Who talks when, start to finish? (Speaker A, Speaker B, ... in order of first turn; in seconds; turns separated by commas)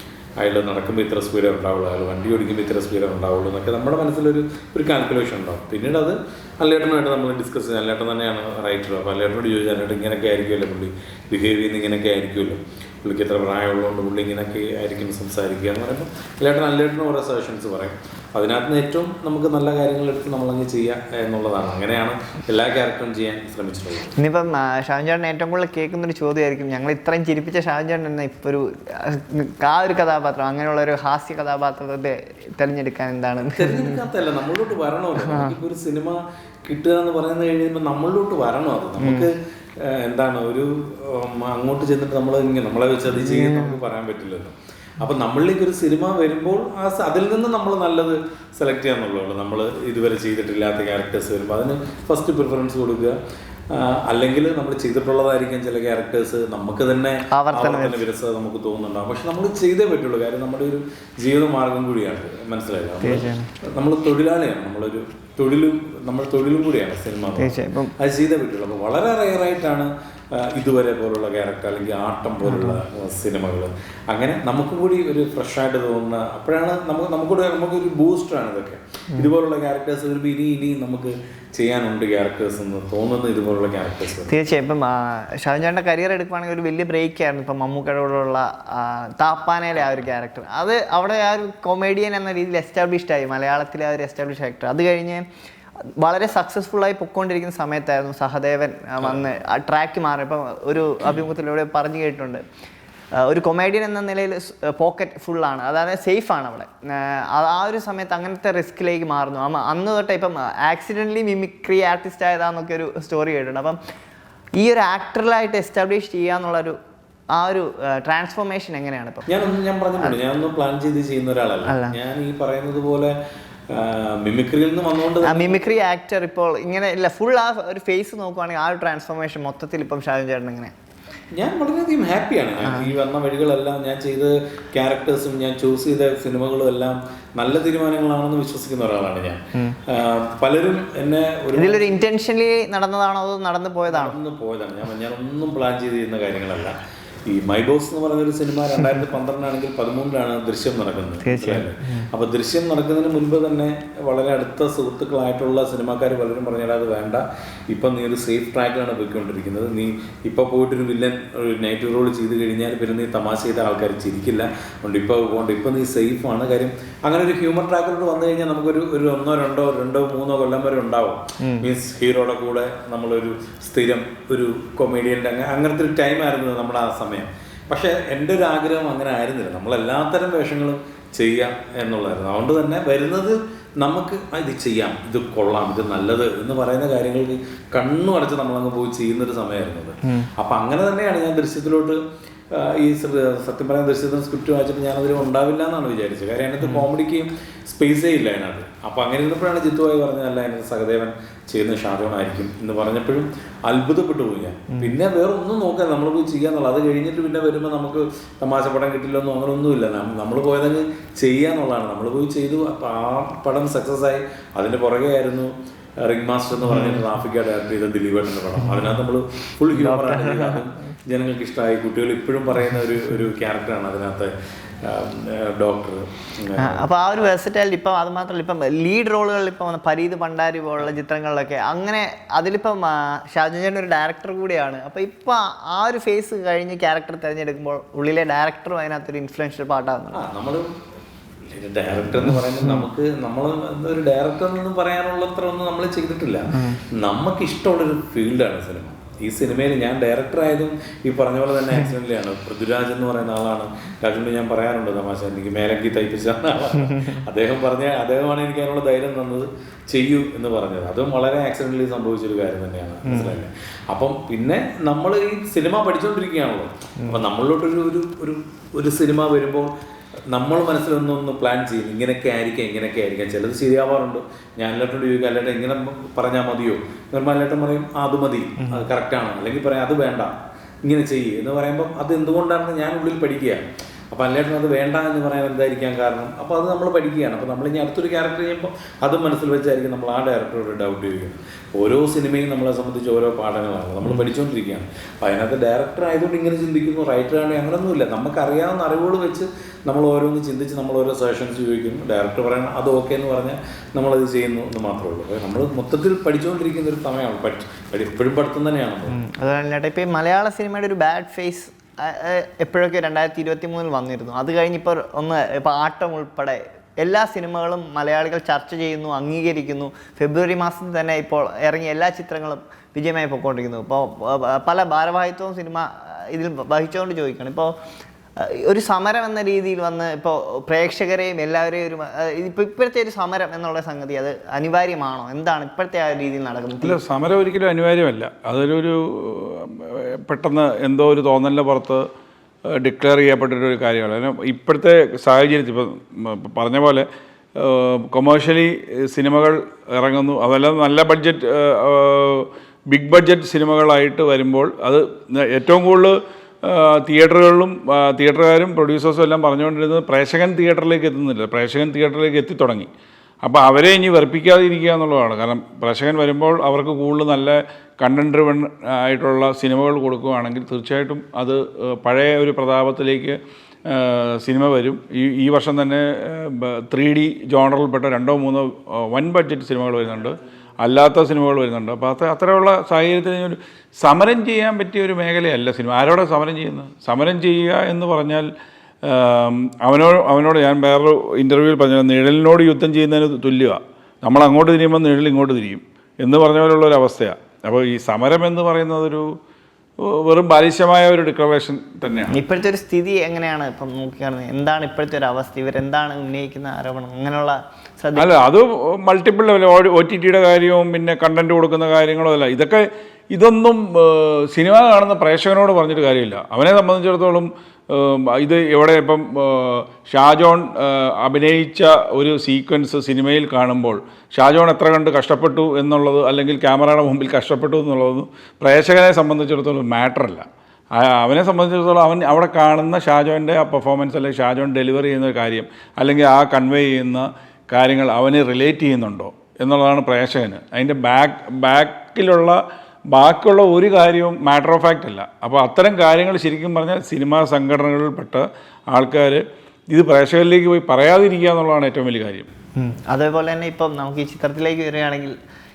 Speaker A: 0.4-24.1, Speaker B: 24.2-34.0, Speaker A: 33.5-53.2, Speaker B: 35.2-35.5, Speaker B: 39.0-39.3, Speaker B: 43.1-43.8, Speaker A: 53.7-84.3, Speaker B: 57.3-58.0, Speaker B: 63.0-63.5, Speaker B: 67.4-67.9, Speaker B: 72.4-72.8, Speaker B: 84.3-95.2, Speaker B: 96.0-102.4, Speaker B: 103.2-113.8, Speaker B: 114.6-116.8, Speaker B: 117.3-119.2, Speaker A: 119.3-123.2, Speaker B: 121.7-121.9, Speaker A: 123.7-125.7, Speaker B: 125.2-130.7, Speaker A: 131.3-141.9, Speaker B: 132.7-132.9, Speaker B: 141.5-144.2, Speaker A: 143.9-192.0, Speaker B: 151.2-152.1, Speaker B: 171.4-171.7, Speaker A: 192.5-226.8, Speaker B: 196.6-196.9, Speaker B: 216.6-217.0, Speaker B: 218.7-218.9, Speaker B: 219.7-220.6, Speaker B: 226.6-240.2, Speaker A: 240.1-240.8, Speaker A: 241.5-269.7, Speaker B: 256.9-257.2, Speaker B: 263.1-263.4, Speaker A: 270.3-309.2, Speaker B: 278.6-278.8, Speaker B: 309.1-327.7, Speaker B: 328.4-337.0, Speaker C: 336.8-342.1, Speaker C: 342.7-362.9, Speaker C: 363.4-388.5, Speaker C: 389.0-399.4, Speaker C: 400.0-402.4, Speaker B: 402.3-408.3, Speaker C: 408.1-452.5, Speaker B: 452.8-455.3